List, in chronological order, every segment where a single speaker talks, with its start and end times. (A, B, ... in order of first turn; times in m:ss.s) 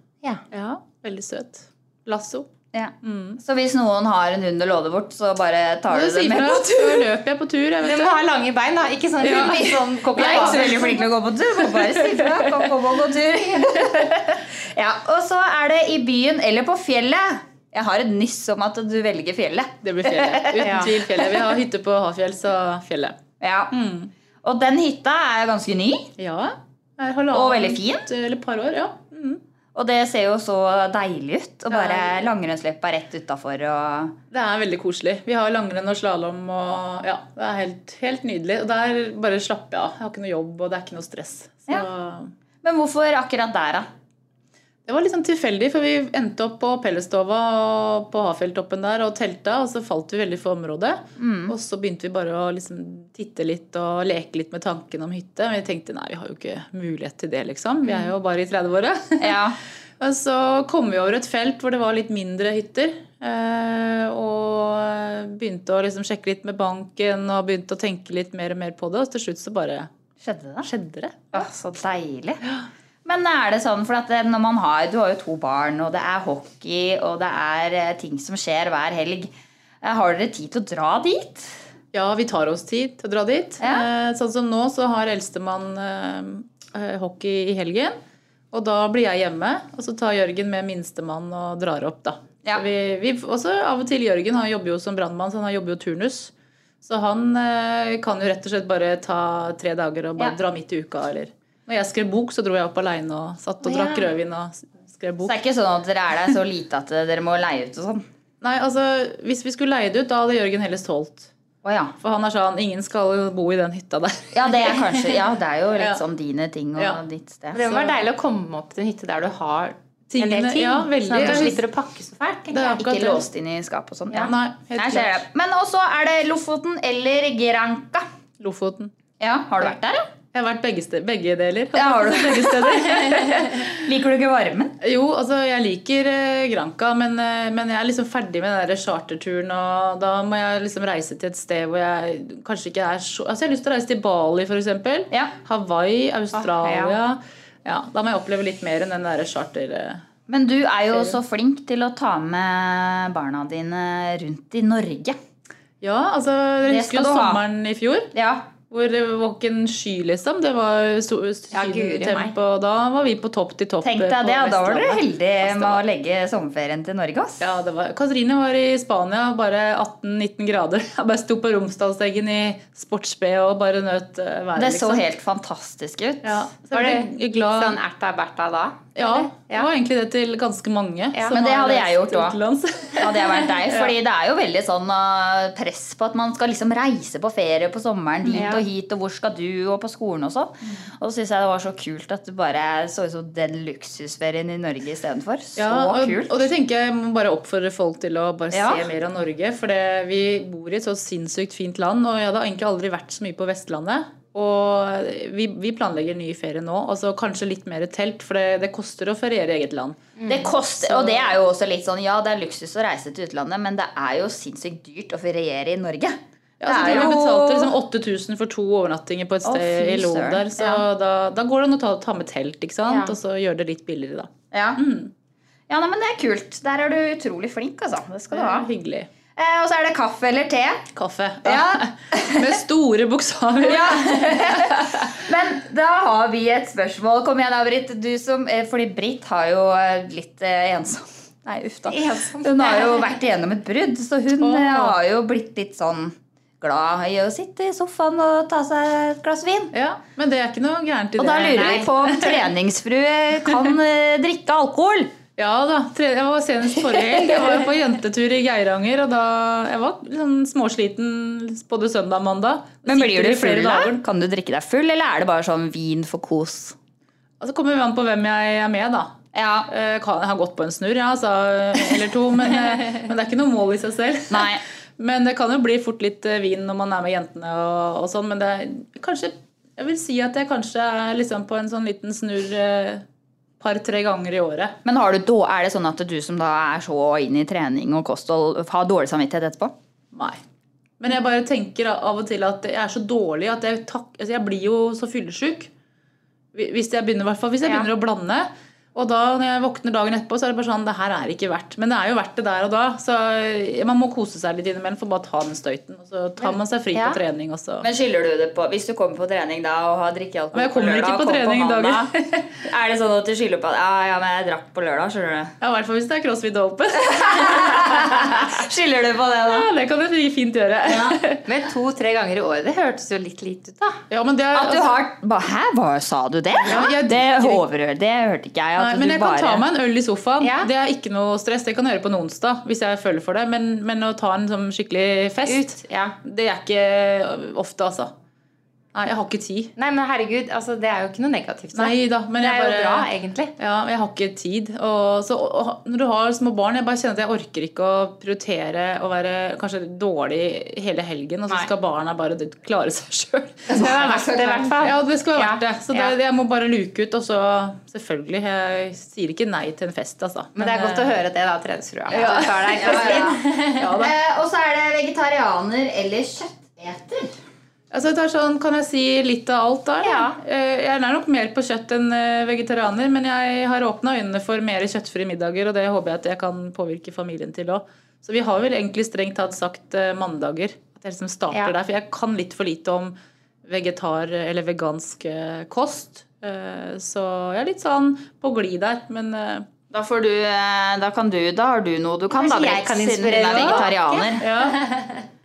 0:00.5-0:02.5 A
0:02.7-0:07.0 B
0:03.0-0:03.4 A
0:05.9-0:08.2 A
0:07.8-0:10.9 C
0:09.2-0:11.0 A
0:10.1-0:21.2 B
0:11.6-0:12.7 A
0:19.8-0:23.2 A
0:20.6-0:20.9 C
0:23.4-0:23.7 B
0:23.7-0:24.1 A
0:24.4-0:26.1 B
0:26.2-0:29.4 A
0:27.3-0:28.0 B
0:29.7-0:34.1 B
0:31.7-0:32.3 A
0:34.3-0:42.3 A
0:42.6-0:43.9 B
0:44.9-0:59.4 A
0:51.2-0:51.5 B
0:57.8-0:58.1 C
0:59.2-0:59.6 B
1:00.0-1:09.9 A
1:10.2-1:10.7 B
1:10.6-1:11.5 A
1:11.3-1:12.4 B
1:13.0-1:19.3 B
1:19.8-1:21.5 B
1:21.9-1:28.0 A
1:23.6-1:23.8 B
1:28.5-1:36.3 A
1:36.8-1:45.4 A
1:43.6-1:44.1 C
1:45.2-1:48.0 B
1:48.4-1:51.3 A
1:51.6-1:51.9 B
1:52.0-1:55.0 A
1:54.3-1:57.6 B
1:57.5-2:02.8 C
1:57.6-1:58.0 A
2:00.1-2:01.6 A
2:02.5-2:03.2 A
2:02.8-2:08.0 B
2:04.2-2:05.2 A
2:08.4-2:08.9 A
2:09.2-2:10.0 B
2:10.3-2:13.8 A
2:11.7-2:14.7 B
2:14.8-2:30.0 A
2:26.3-2:26.9 C
2:30.3-2:35.2 B
2:35.8-2:38.1 A
2:36.7-2:37.4 B
2:38.1-2:38.4 B
2:38.7-2:45.8 A
2:41.5-2:42.3 C
2:43.8-2:47.4 B
2:47.4-2:55.0 A
2:54.6-2:56.5 B
2:56.2-2:57.8 A
2:56.7-2:59.7 C
2:59.0-3:03.9 A
3:01.3-3:02.4 B
3:03.0-3:16.4 B
3:08.2-3:08.5 A
3:08.3-3:08.6 C
3:15.6-3:30.1 A
3:18.5-3:18.9 B
3:30.2-3:30.4 C
3:30.3-3:37.7 B
3:30.8-3:31.3 A
3:36.6-3:45.1 A
3:39.4-3:40.5 B
3:42.9-3:43.1 C
3:44.5-3:44.8 B
3:45.7-3:48.7 B
3:48.3-3:49.1 A
3:49.4-3:50.8 B
3:50.9-3:55.2 A
3:51.4-3:52.5 B
3:53.6-4:09.7 B
4:01.9-4:03.1 C
4:04.4-4:05.0 A
4:09.7-4:12.5 A
4:11.2-4:15.1 B
4:11.5-4:11.8 C
4:15.4-4:24.0 A
4:22.8-4:26.8 B
4:27.4-4:29.1 A
4:29.3-4:29.7 B
4:29.7-4:43.0 A
4:34.3-4:34.6 B
4:43.6-4:44.8 A
4:44.8-4:49.7 B
4:50.1-4:50.4 A
4:51.0-4:55.7 A
4:56.5-5:07.9 A
5:06.4-5:07.2 C
5:07.8-5:12.1 B
5:10.5-5:12.6 A
5:12.6-5:15.5 B
5:15.6-5:18.6 A
5:17.0-5:19.7 B
5:19.5-5:21.4 A
5:21.4-5:24.0 C
5:24.1-5:25.0 A
5:24.5-5:29.6 B
5:26.7-5:27.6 A
5:28.8-5:38.1 A
5:30.4-5:30.7 C
5:35.5-5:36.2 C
5:38.9-5:39.7 A
5:39.8-5:43.5 C
5:41.7-5:54.2 A
5:53.7-5:54.8 B
5:53.7-5:56.1 C
5:54.8-6:01.1 A
6:00.6-6:03.9 C
6:02.1-6:04.1 A
6:02.1-6:03.4 B
6:03.9-6:07.3 B
6:07.9-6:23.1 A
6:10.0-6:10.4 C
6:23.6-6:29.7 A
6:29.9-6:34.4 B
6:32.3-6:35.2 C
6:33.4-6:33.9 A
6:34.4-6:34.8 A